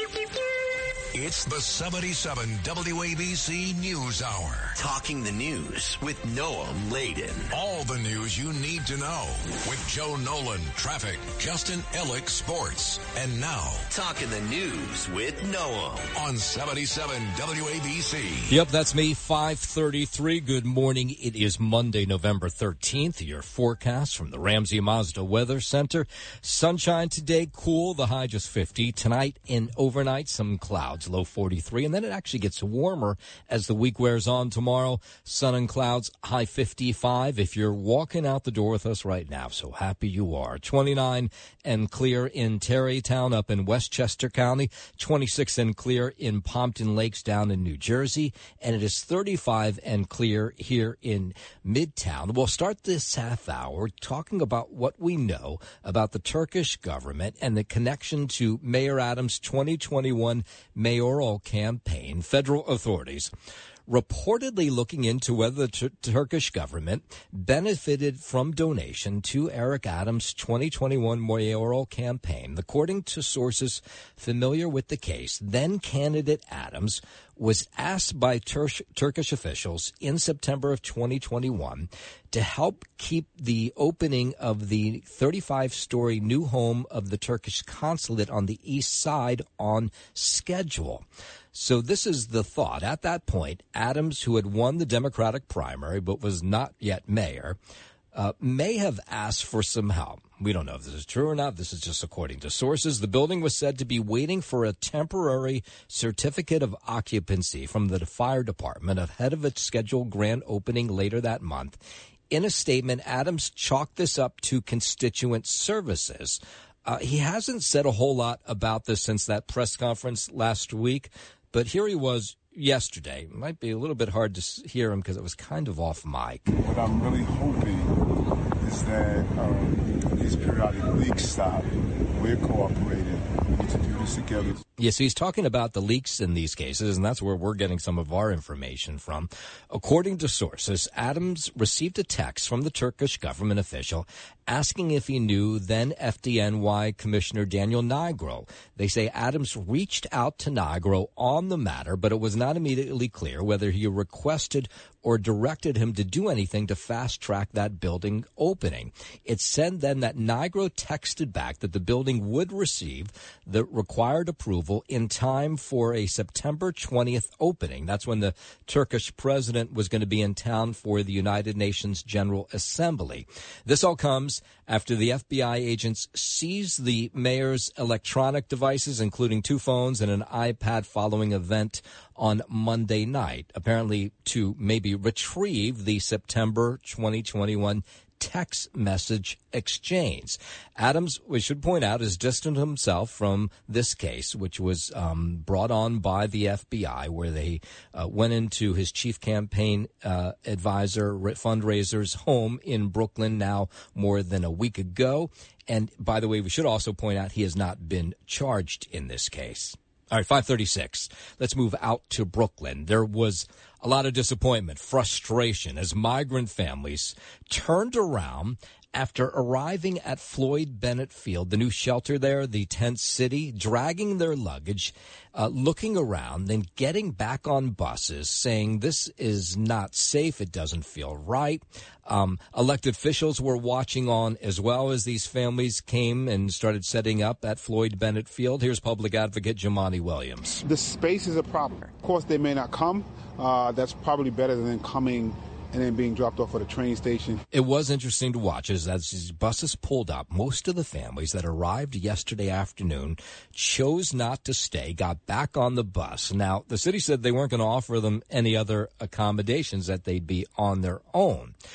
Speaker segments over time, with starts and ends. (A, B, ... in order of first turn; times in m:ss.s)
0:01.1-0:04.8 A
0:04.8-0:07.5 B
0:07.5-0:13.9 A
0:13.9-0:16.1 B
0:16.1-0:18.6 A
0:18.5-1:03.3 C
1:03.9-1:37.6 C
1:38.1-2:06.5 C
2:06.6-2:07.9 D
2:08.6-2:11.6 D
2:12.2-2:14.6 D
2:14.8-4:00.6 C
4:00.6-4:07.4 E
4:07.5-4:21.5 C